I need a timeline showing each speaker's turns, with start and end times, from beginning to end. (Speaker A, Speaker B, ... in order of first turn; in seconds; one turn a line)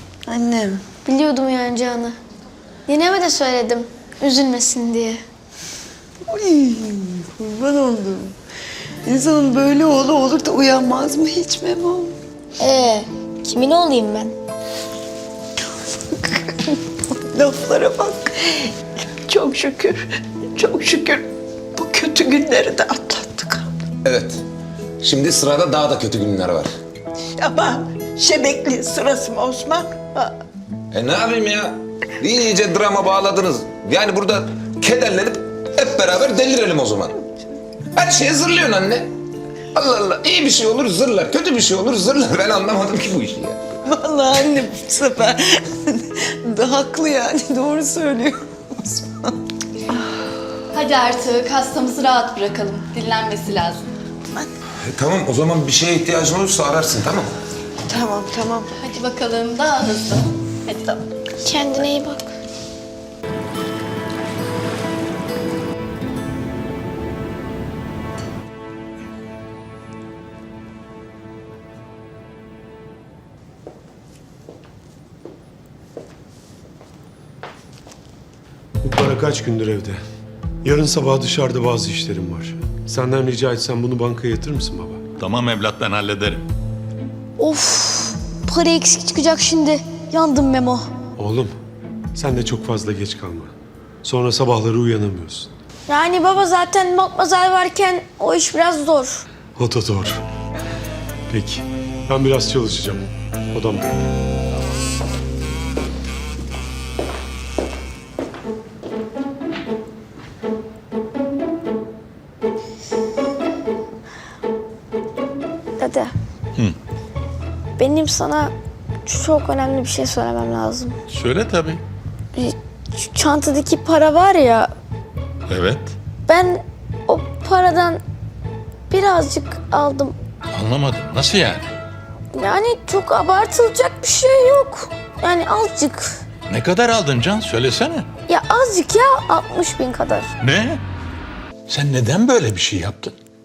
Speaker A: 0.2-0.8
Speaker B: 1.0-2.1
Speaker B: 2.9-5.2
Speaker A: 6.3-8.3
Speaker A: 9.0-12.1
Speaker B: 12.6-14.3
Speaker A: 17.3-18.7
Speaker A: 19.3-23.7
Speaker C: 24.0-24.4
Speaker C: 25.0-26.7
Speaker A: 27.4-30.3
Speaker C: 30.9-37.1
Speaker C: 37.9-39.1
Speaker C: 39.7-43.6
Speaker A: 43.9-49.1
Speaker D: 50.7-53.8
Speaker C: 54.9-57.3
Speaker A: 57.9-58.7
Speaker D: 59.0-60.8
Speaker B: 61.4-62.3
Speaker E: 78.8-80.0
Speaker E: 80.6-85.0
Speaker F: 85.2-86.4
Speaker B: 87.4-90.9
Speaker E: 91.2-91.5
Speaker E: 92.1-93.5
Speaker E: 94.0-95.5
Speaker B: 95.9-99.2
Speaker E: 99.6-100.2
Speaker E: 101.3-103.9
Speaker B: 115.8-116.1
Speaker B: 117.8-118.5
Speaker B: 119.0-121.0
Speaker F: 121.1-121.8
Speaker B: 122.3-124.7
Speaker F: 125.5-126.0
Speaker B: 126.3-128.0
Speaker B: 128.9-130.2
Speaker F: 130.5-131.7
Speaker B: 132.3-136.1
Speaker F: 136.5-138.1
Speaker B: 138.3-140.3
Speaker F: 140.4-140.8
Speaker F: 141.7-143.1